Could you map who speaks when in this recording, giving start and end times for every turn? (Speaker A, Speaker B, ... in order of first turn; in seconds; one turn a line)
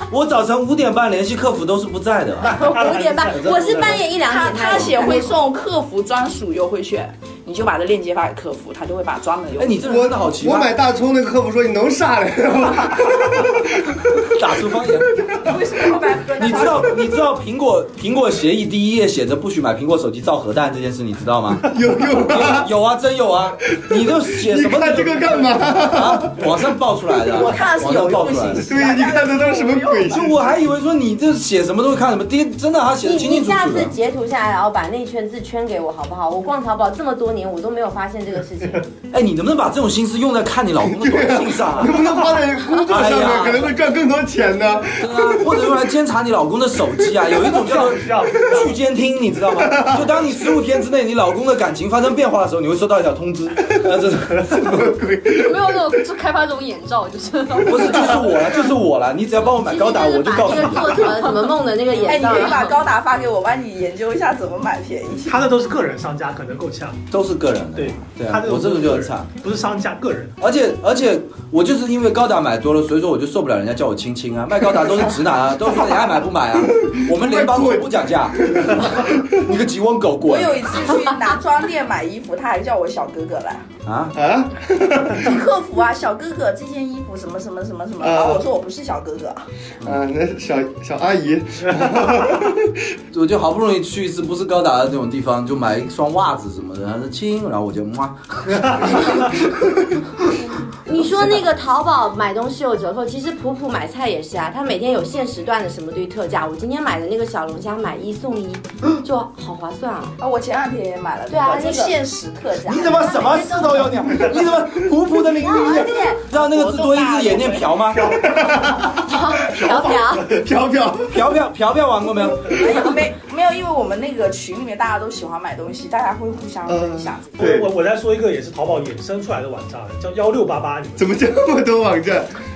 Speaker A: 0.1-4.1
Speaker B: 2.5-5.4
Speaker C: 3.8-9.8
Speaker A: 4.7-5.2
Speaker A: 9.6-10.8
Speaker D: 9.8-14.3
Speaker A: 14.3-15.2
Speaker C: 15.4-17.1
Speaker A: 16.3-28.8
Speaker D: 21.7-22.7
Speaker D: 23.7-26.7
Speaker C: 27.2-30.3
Speaker D: 28.6-30.4
Speaker A: 30.1-33.9
Speaker B: 33.0-38.9
Speaker A: 39.1-42.3
Speaker D: 40.9-45.6
Speaker A: 42.9-43.8
Speaker A: 45.0-54.9
Speaker E: 47.5-48.8
Speaker D: 49.5-50.5
Speaker D: 54.5-55.8
Speaker F: 55.3-58.3
Speaker A: 57.6-61.2
Speaker B: 59.6-62.7
Speaker F: 60.5-62.8
Speaker C: 61.9-65.5
Speaker E: 65.2-67.0
Speaker A: 67.1-69.3
Speaker E: 67.7-70.3
Speaker A: 70.4-81.0
Speaker D: 76.6-79.5
Speaker C: 80.2-83.7
Speaker A: 83.8-84.2
Speaker D: 84.1-85.4
Speaker C: 85.2-89.5
Speaker D: 88.0-88.4
Speaker D: 89.8-92.7
Speaker A: 93.1-100.2
Speaker B: 100.8-110.1
Speaker A: 100.9-101.4
Speaker C: 110.2-114.3
Speaker B: 111.3-111.9
Speaker A: 112.6-118.2
Speaker B: 113.0-113.9
Speaker B: 115.3-116.2
Speaker C: 115.8-117.9
Speaker E: 118.0-118.6
Speaker D: 118.1-121.3
Speaker B: 118.9-120.4
Speaker E: 119.5-120.4
Speaker A: 121.1-122.6
Speaker C: 122.4-127.5
Speaker D: 126.7-127.7
Speaker E: 127.4-131.2
Speaker D: 131.0-132.3